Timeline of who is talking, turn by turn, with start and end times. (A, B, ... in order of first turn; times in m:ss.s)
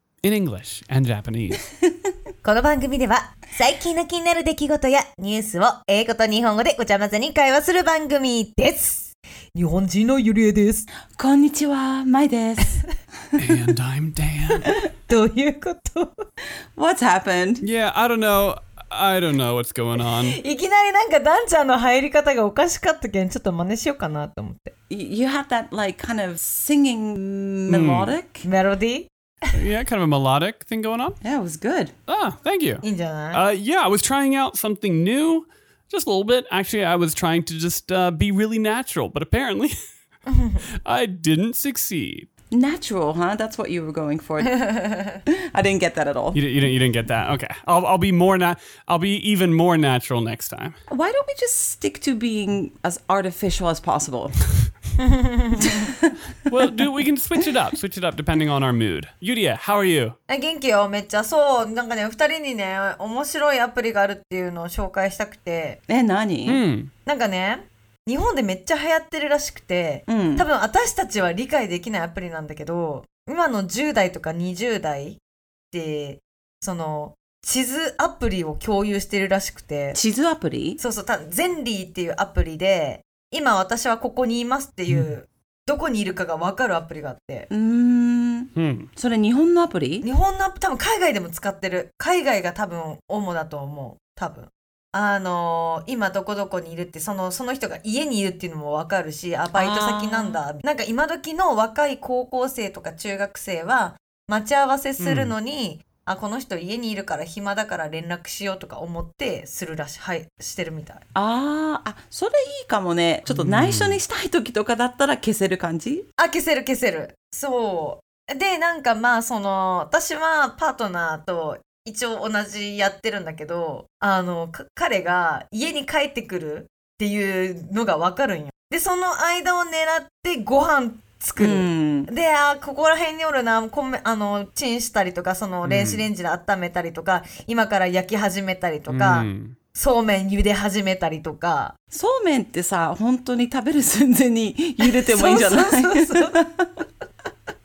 0:00.2-0:01.6 A
0:02.4-0:10.9 B
0:11.2-0:12.8 C
0:13.4-0:14.7 A
0:15.1-0:16.1 B
0:16.8-0:17.6 C
0:17.6-0:20.4 A
0:20.0-0:24.7 B
0:24.9-0:28.4 C
0:27.7-0:28.2 A
0:28.4-0:29.1 B
0:29.5-0:31.2 A
0:31.2-0:31.9 C
0:32.1-0:39.7 A
0:32.8-0:33.4 B
0:40.3-0:40.6 B
0:40.8-0:42.3 A
0:42.5-0:46.4 C
0:44.5-0:45.2 B
0:46.3-0:50.8 A
0:50.9-0:54.4 C
0:55.0-0:55.9 B
0:56.4-1:00.1 A
1:00.3-1:05.8 B
1:05.9-1:06.6 C
1:06.5-1:06.9 A
1:07.0-1:15.2 B
1:10.1-1:10.5 C
1:15.7-1:20.0 B
1:19.9-1:20.8 C
1:20.8-1:27.5 B
1:27.5-1:30.0 C
1:28.5-1:28.9 A
1:30.0-1:51.0 B
1:39.5-1:40.4 C
1:45.0-1:45.3 A
1:51.1-1:56.0 C
1:53.3-1:54.0 A
1:56.2-2:21.7 B
2:11.4-2:12.1 C
2:15.6-2:16.1 A
2:18.9-2:19.5 A
2:21.9-2:26.7 C
2:24.8-2:26.4 B